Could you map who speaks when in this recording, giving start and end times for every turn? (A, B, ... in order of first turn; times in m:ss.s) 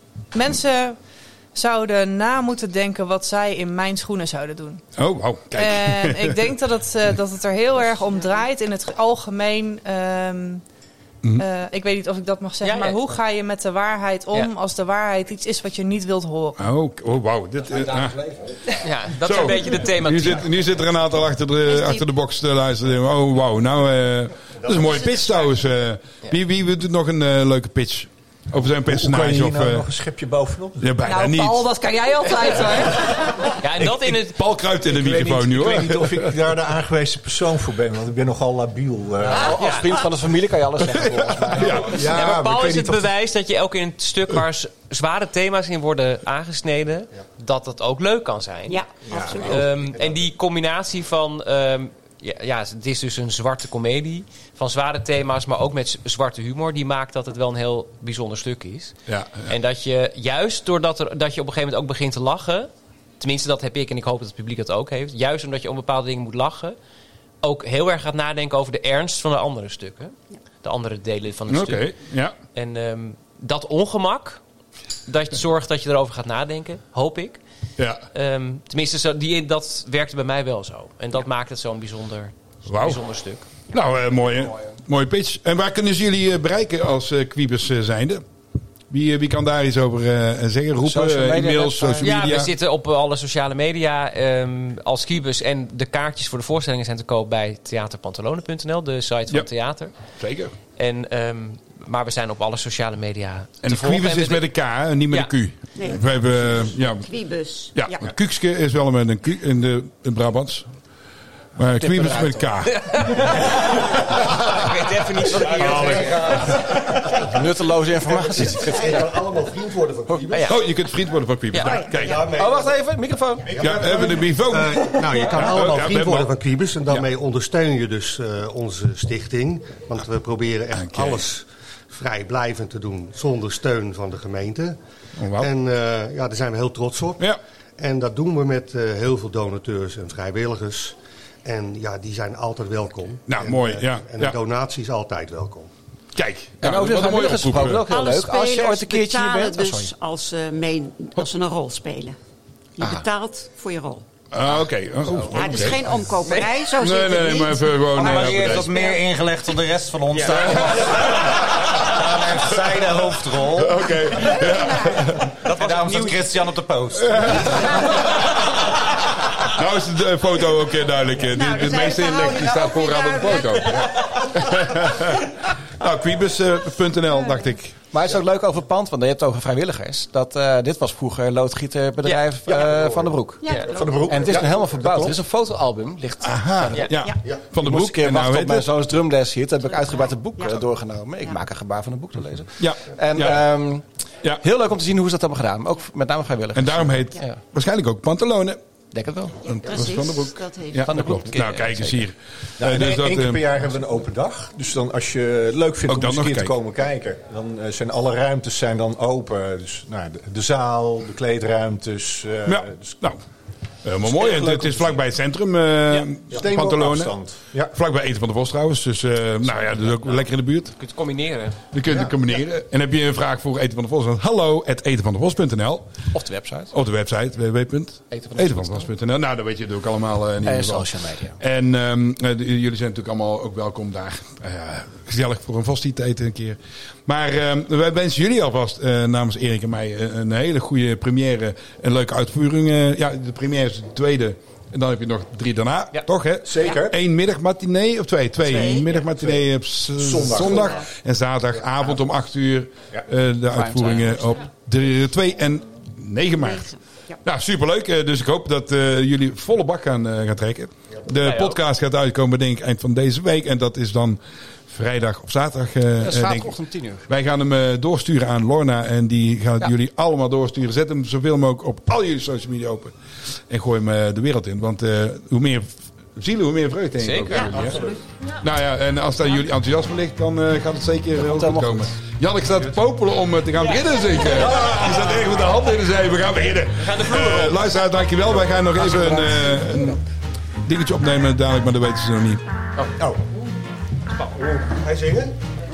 0:00.3-0:01.0 A
0:01.5-0:04.8 A
0:05.0-0:06.5 B
0:05.5-0:10.6 A
0:11.4-0:16.6 A
0:12.6-0:13.0 C
0:16.6-0:18.2 B
0:18.8-0:20.5 C
0:19.1-0:29.9 B
0:24.6-0:25.2 D
0:28.8-0:30.8 E
0:30.8-0:31.7 B
0:31.0-0:33.3 A
0:33.6-0:34.4 C
0:33.8-0:36.3 B
0:34.8-0:39.7 E
0:39.2-0:42.0 F
0:39.3-0:39.9 C
0:40.9-0:41.9 B
0:41.6-1:06.8 C
0:41.8-0:43.1 E
0:48.7-0:49.6 G
0:49.0-0:49.6 E
0:50.0-0:50.2 D
0:59.1-0:59.5 B
1:07.4-1:11.9 C
1:11.5-1:12.4 B
1:12.5-1:14.4 C
1:15.1-1:17.4 C
1:17.8-1:18.0 B
1:18.1-1:23.6 C
1:22.7-1:23.0 B
1:23.7-1:28.2 B
1:28.9-1:32.5 B
1:30.8-1:32.3 F
1:32.0-1:39.9 C
1:40.2-1:40.5 B
1:40.8-1:44.4 C
1:43.6-1:47.0 B
1:45.8-1:48.1 G
1:47.7-1:50.6 B
1:51.6-1:53.4 B
1:51.8-1:53.5 F
1:52.7-1:56.6 C
1:54.5-1:56.1 F
1:55.6-1:56.6 B
1:56.7-1:59.2 F
1:58.1-2:00.6 D
2:00.3-2:00.6 C
2:00.4-2:02.3 B
2:01.5-2:02.1 C
2:01.6-2:02.2 G
2:02.0-2:02.8 D
2:02.2-2:04.1 F
2:03.5-2:14.8 D
2:03.6-2:06.3 B
2:10.7-2:11.2 B
2:15.2-2:15.5 B
2:15.4-2:25.7 D
2:23.3-2:24.4 B
2:26.1-2:27.8 B
2:26.6-2:29.9 F
2:27.7-2:32.2 G
2:32.8-2:34.0 G
2:34.3-2:35.8 B
2:35.3-2:39.0 G
2:36.7-2:38.7 B
2:37.9-2:43.8 H
2:40.1-2:40.5 C
2:43.5-2:45.4 B
2:44.3-2:45.0 G
2:45.4-2:47.6 H
2:45.6-2:46.2 C
2:47.1-2:47.8 B
2:49.4-2:57.8 B
2:51.2-2:54.5 G
2:57.9-3:03.5 F
3:02.5-3:03.1 E
3:03.4-3:04.0 G
3:03.7-3:05.2 E
3:04.0-3:07.0 F
3:06.2-3:08.7 B
3:07.6-3:13.8 F
3:10.4-3:10.6 G
3:12.6-3:13.5 B
3:14.4-3:17.4 F
3:16.5-3:18.6 B
3:18.9-3:19.4 F
3:19.4-3:23.4 B
3:19.4-3:21.2 G
3:20.8-3:22.0 F
3:22.6-3:33.0 E
3:25.9-3:26.5 B
3:32.4-3:33.2 B
3:33.8-3:37.2 B
3:34.0-3:35.0 E
3:36.3-3:37.8 E
3:37.7-3:40.7 B
3:39.8-3:40.2 C
3:40.8-3:41.6 C
3:41.7-3:45.9 B
3:41.9-3:42.1 E
3:46.1-3:46.7 F
3:46.7-4:16.7 B
3:48.1-3:48.9 F
3:50.4-3:51.4 F
4:06.4-4:07.0 E
4:08.4-4:09.0 G
4:09.2-4:10.8 E
4:10.4-4:10.9 G
4:16.4-4:17.2 G
4:17.2-4:26.5 B
4:21.2-4:21.6 C
4:26.0-4:27.1 F
4:27.1-4:32.9 B
4:33.5-4:37.8 B
4:37.0-4:37.9 C
4:37.6-4:38.0 E
4:38.4-4:50.0 B
4:41.1-4:42.0 F
4:46.9-4:47.5 C
4:48.7-4:49.7 F
4:50.6-4:52.4 B
4:54.1-4:55.4 D